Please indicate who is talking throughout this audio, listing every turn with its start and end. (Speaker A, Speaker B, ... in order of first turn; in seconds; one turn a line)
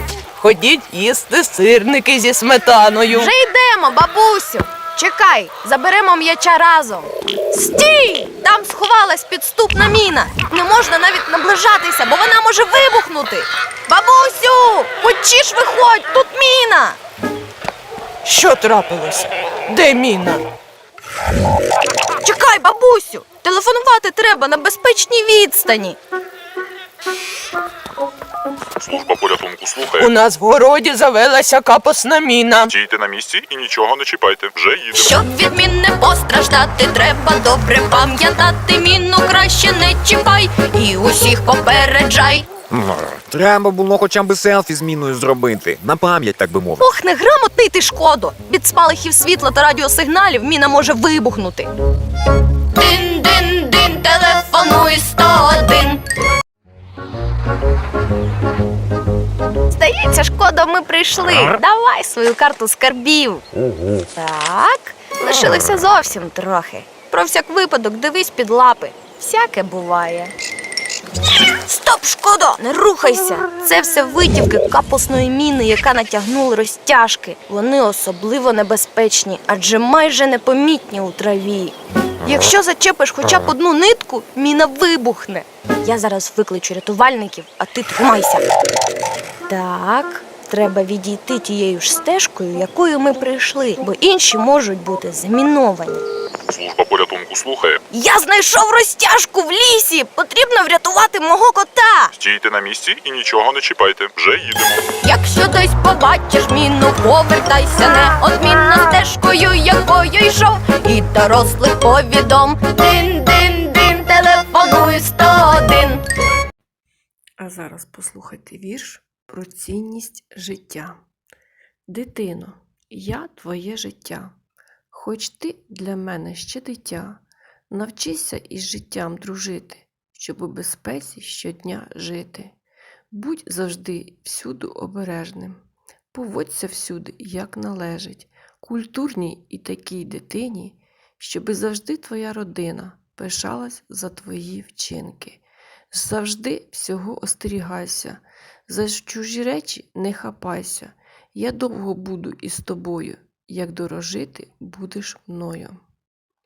Speaker A: 0.4-3.3
Speaker B: 3.1-17.0
Speaker A: 18.2-20.4
Speaker B: 22.2-26.0
Speaker C: 28.8-30.1
Speaker A: 30.0-32.7
Speaker C: 32.7-35.2
Speaker B: 34.9-42.5
Speaker D: 42.7-46.9
Speaker B: 46.8-51.7
Speaker B: 52.8-56.0
Speaker B: 59.7-63.4
Speaker B: 64.1-70.3
Speaker B: 71.7-88.5
Speaker B: 89.5-96.0
Speaker C: 96.5-97.8
Speaker B: 97.9-102.1
Speaker C: 102.2-104.9
Speaker B: 105.0-116.0
Speaker E: 117.4-121.0
Speaker E: 121.9-124.3
Speaker E: 124.9-132.6
Speaker E: 133.1-135.6
Speaker E: 136.1-155.8